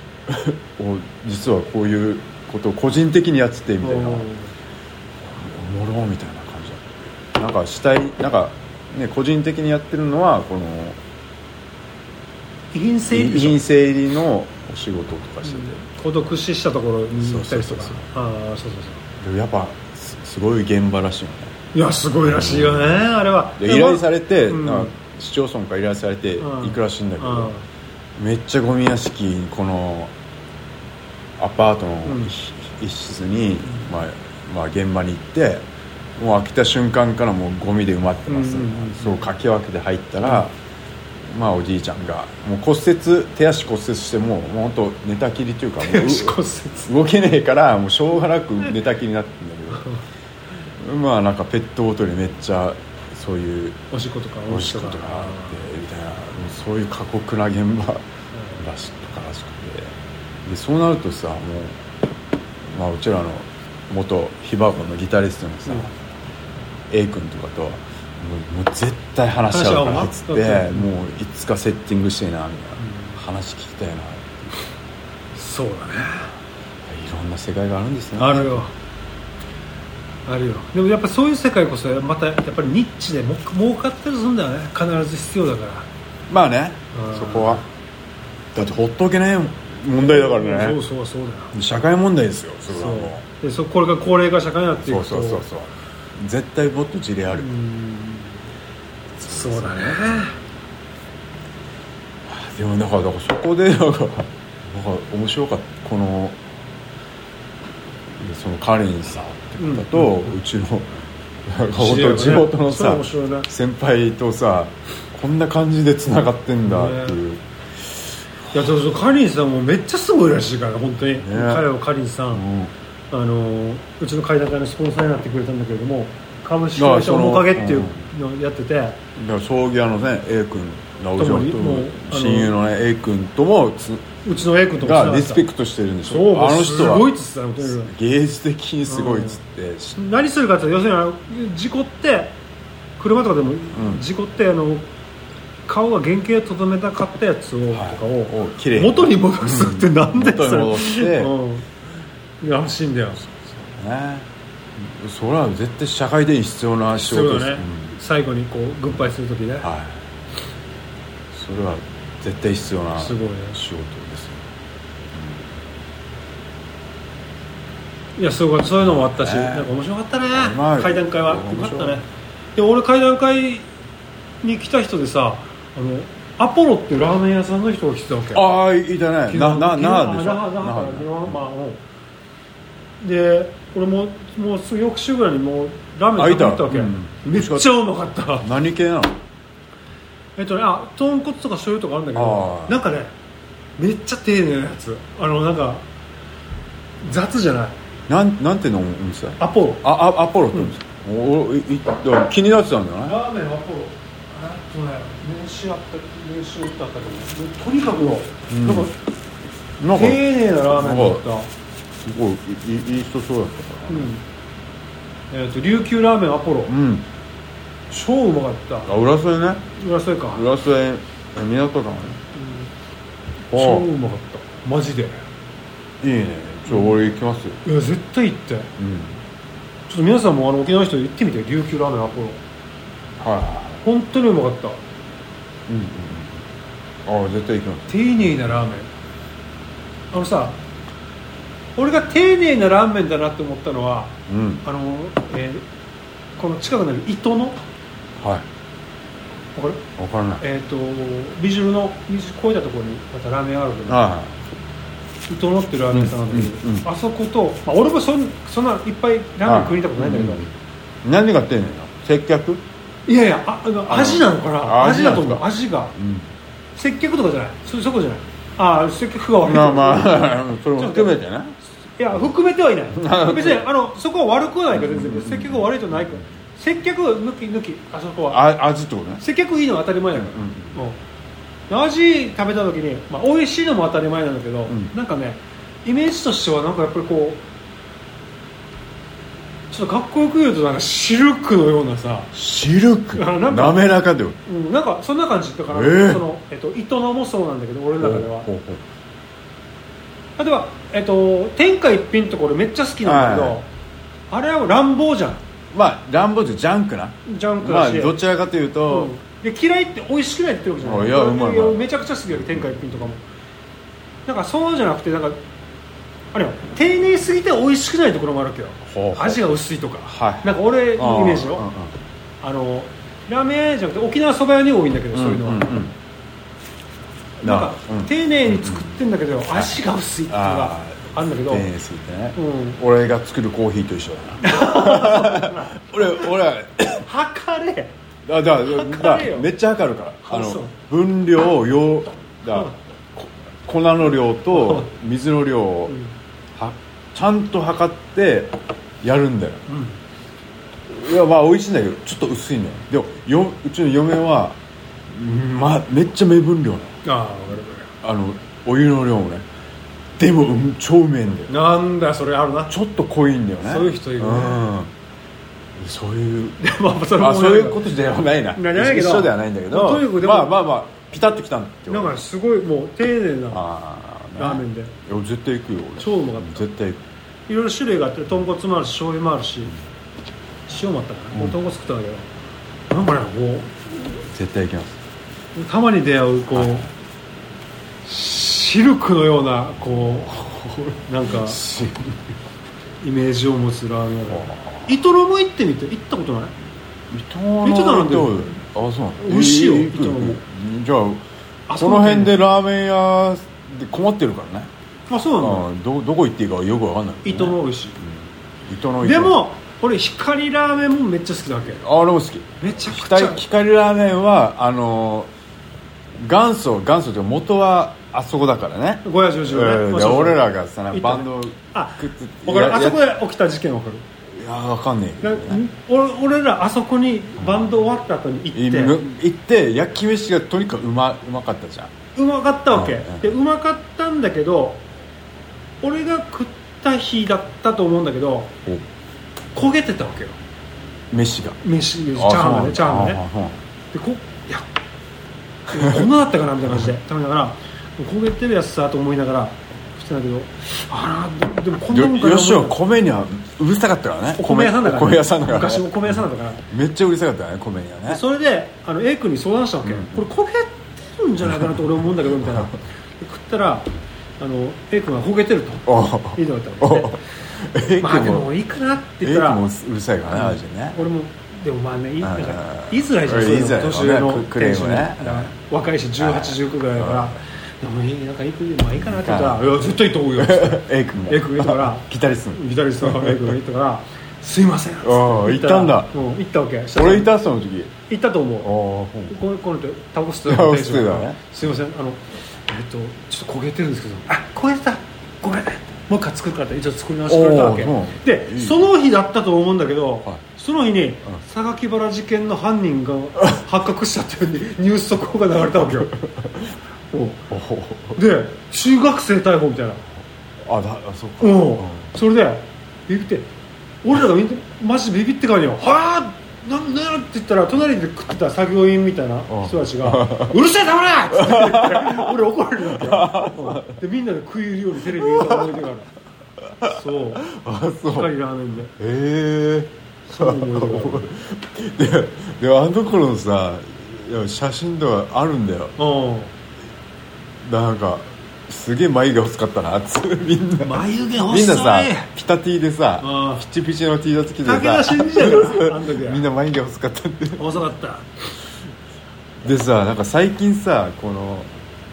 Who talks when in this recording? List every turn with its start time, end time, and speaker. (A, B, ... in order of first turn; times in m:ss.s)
0:00.3-0:04.2 A
0:03.8-0:04.5 B
0:05.2-0:11.0 A
0:12.7-0:13.6 B
0:13.1-0:15.8 A
0:15.4-0:19.0 B
0:17.1-0:18.0 A
0:19.2-0:21.6 A
0:21.7-0:24.9 B
0:22.2-0:23.0 A
0:23.6-0:27.5 A
0:26.4-0:27.6 B
0:28.2-0:30.1 A
0:31.4-0:35.6 A
0:32.0-0:32.3 B
0:36.2-0:40.5 A
0:38.3-0:39.3 B
0:41.3-0:49.9 A
0:45.8-0:46.9 B
0:50.8-0:53.8 A
0:53.9-0:55.6 B
0:54.5-0:58.0 A
0:58.3-0:58.6 B
0:58.6-1:01.8 A
1:02.7-1:05.9 A
1:06.9-1:14.5 A
1:09.5-1:10.9 B
1:12.8-1:13.2 B
1:15.4-1:16.3 B
1:16.9-1:18.6 A
1:18.2-1:18.7 B
1:20.2-1:25.9 B
1:26.3-1:27.6 A
1:26.9-1:27.6 B
1:28.5-1:30.8 A
1:30.0-1:31.5 B
1:31.5-1:33.2 A
1:32.7-1:35.4 B
1:34.8-1:37.5 A
1:37.3-1:38.4 B
1:39.2-1:40.2 A
1:39.3-1:40.3 B
1:42.2-1:46.4 A
1:48.2-1:50.9 A
1:49.6-1:50.1 B
1:51.4-1:57.4 A
1:51.7-1:53.5 B
1:56.6-1:57.2 B
1:58.5-2:02.4 B
2:01.2-2:01.6 A
2:02.3-2:02.7 A
2:03.1-2:09.0 B
2:06.8-2:08.1 A
2:09.2-2:14.1 A
2:11.2-2:12.5 B
2:14.2-2:15.4 B
2:14.8-2:20.0 A
2:16.0-2:17.9 B
2:18.9-2:19.4 B
2:20.0-2:22.3 B
2:23.0-2:24.8 B
2:23.7-2:24.0 A
2:25.7-2:31.6 B
2:27.7-2:31.3 A
2:32.4-2:33.2 B
2:33.3-2:37.9 A
2:37.0-2:39.7 B
2:39.6-2:40.0 A
2:41.3-2:44.4 A
2:42.9-2:43.6 B
2:45.1-2:45.4 A
2:48.2-2:53.6 B
2:48.8-2:49.7 A
2:50.3-2:52.0 A
2:54.4-2:58.5 B
2:58.3-3:01.4 A
2:59.3-3:01.8 B
3:03.0-3:08.5 B
3:06.2-3:07.8 A
3:08.4-3:09.2 A
3:10.4-3:13.1 B
3:12.1-3:12.8 A
3:13.8-3:15.8 B
3:17.0-3:17.8 B
3:18.1-3:23.2 A
3:19.4-3:19.8 B
3:23.0-3:28.9 B
3:28.5-3:28.9 A
3:29.8-3:31.2 A
3:29.9-3:31.5 B
3:32.0-3:34.1 A
3:33.9-3:34.2 B
3:35.3-3:36.7 B
3:36.7-3:37.1 A
3:37.9-3:38.9 B
3:38.8-3:39.6 A
3:39.8-3:40.4 B
3:40.3-3:42.2 A
3:42.3-3:42.7 B
3:43.5-3:45.2 B
3:43.5-3:43.9 A
3:46.0-3:47.6 A
3:46.7-3:47.0 B
3:47.6-3:48.7 B
3:48.8-3:49.2 A
3:49.9-3:52.4 B
3:53.2-3:53.8 A
3:53.8-3:54.8 B
3:55.7-3:56.4 A
3:57.0-3:57.9 A
3:57.9-3:58.9 B
4:00.1-4:00.6 B
4:01.8-4:05.6 B
4:04.3-4:04.6 A
4:06.4-4:07.6 B
4:08.2-4:08.4 A
4:09.5-4:09.8 B
4:10.0-4:10.4 A
4:10.4-4:14.0 B
4:13.9-4:14.3 A
4:15.3-4:20.4 B
4:15.9-4:16.8 A
4:19.4-4:20.5 A
4:21.0-4:22.6 A
4:23.1-4:25.9 B
4:23.9-4:26.3 A
4:26.8-4:31.2 B
4:29.4-4:31.6 A
4:32.0-4:38.5 B
4:32.9-4:33.7 A
4:34.7-4:36.2 A
4:38.3-4:39.2 A
4:39.2-4:41.0 B
4:40.1-4:40.8 A
4:41.7-4:47.4 B
4:49.7-4:52.3 B
4:52.3-4:54.4 A
4:53.1-4:53.8 B
4:54.4-4:58.5 B
4:55.7-4:56.2 A
4:58.0-4:58.8 A
5:00.4-5:03.7 B
5:03.0-5:03.6 A
5:04.3-5:05.4 B
5:05.7-5:09.1 A
5:07.2-5:08.1 B
5:08.9-5:13.2 B
5:10.8-5:13.0 A
5:14.2-5:15.4 B
5:16.3-5:21.7 B
5:18.8-5:21.9 A
5:22.4-5:25.8 B
5:25.1-5:25.9 A
5:27.4-5:29.0 A
5:27.4-5:31.7 B
5:30.3-5:37.1 A
5:32.4-5:32.8 B
5:34.4-5:35.8 B
5:37.0-5:37.9 B
5:38.2-5:46.0 A
5:38.6-5:39.5 B
5:40.2-5:40.7 B
5:44.5-5:44.9 B
5:46.6-5:49.6 A
5:49.7-5:50.0 B
5:50.9-5:54.6 A
5:55.1-5:56.9 A
5:57.0-5:57.9 B
5:58.0-5:59.4 A
6:00.2-6:01.5 A
6:01.5-6:02.7 B
6:02.7-6:04.9 A
6:03.6-6:04.6 B
6:05.8-6:06.6 A
6:06.6-6:07.8 B
6:07.1-6:12.2 A
6:08.5-6:10.6 B
6:11.9-6:13.6 B
6:13.5-6:17.0 A
6:14.4-6:14.9 B
6:16.0-6:16.7 B
6:17.5-6:19.7 B
6:20.7-6:22.3 B
6:22.9-6:23.7 B
6:24.3-6:25.0 A
6:25.5-6:26.9 B
6:26.5-6:26.8 A
6:28.0-6:31.6 B
6:30.2-6:32.3 A
6:33.0-6:36.5 B
6:34.3-6:34.9 A
6:37.1-6:41.2 A
6:37.6-6:38.6 B
6:39.2-6:40.4 B
6:41.7-6:42.3 B
6:41.7-6:44.7 A
6:45.1-6:45.7 B
6:45.4-6:49.4 A
6:47.2-6:48.0 B
6:49.0-6:51.8 B
6:51.8-6:55.3 A
6:52.6-6:53.4 B
6:56.2-7:03.0 A
6:59.0-7:04.0 B
7:04.3-7:05.6 A
7:05.2-7:09.0 B
7:07.4-7:07.6 A
7:08.5-7:11.9 A
7:12.1-7:14.8 B
7:12.7-7:13.3 A
7:15.8-7:18.5 B
7:19.5-7:20.4 B
7:21.1-7:21.6 A
7:21.6-7:23.2 B
7:22.1-7:23.6 A
7:23.9-7:24.6 B
7:25.7-7:32.8 B
7:25.8-7:26.1 A
7:31.9-7:38.2 A
7:34.4-7:36.6 B
7:38.1-7:47.2 B
7:39.8-7:40.2 A
7:42.4-7:42.7 A
7:45.8-7:48.5 A
7:48.0-7:49.7 B
7:49.2-7:51.0 A
7:50.3-8:07.3 B
7:52.2-7:55.5 A
7:56.2-7:57.3 A
7:59.0-7:59.8 A
8:00.4-8:03.5 A
8:05.0-8:06.1 A
8:06.9-8:07.9 A
8:08.1-8:08.7 B
8:08.6-8:09.3 A
8:09.3-8:26.1 B
8:10.4-8:11.4 A
8:17.2-8:18.9 A
8:26.4-8:26.6 A
8:27.1-8:27.4 B
8:27.5-8:28.2 A
8:28.2-8:30.0 B
8:30.6-8:32.1 A
8:31.4-8:33.5 B
8:34.0-8:46.1 B
8:39.5-8:40.6 A
8:41.3-8:42.3 A
8:42.8-8:43.9 A
8:45.1-8:45.7 A
8:46.8-8:48.3 A
8:46.8-8:47.5 B
8:48.1-8:48.9 B
8:49.0-8:55.9 A
8:50.3-8:51.3 B
8:56.0-8:56.5 B
8:57.6-9:07.7 A
9:00.8-9:02.3 B
9:03.2-9:03.6 B
9:04.6-9:06.4 B
9:07.6-9:08.2 B
9:09.6-9:11.7 A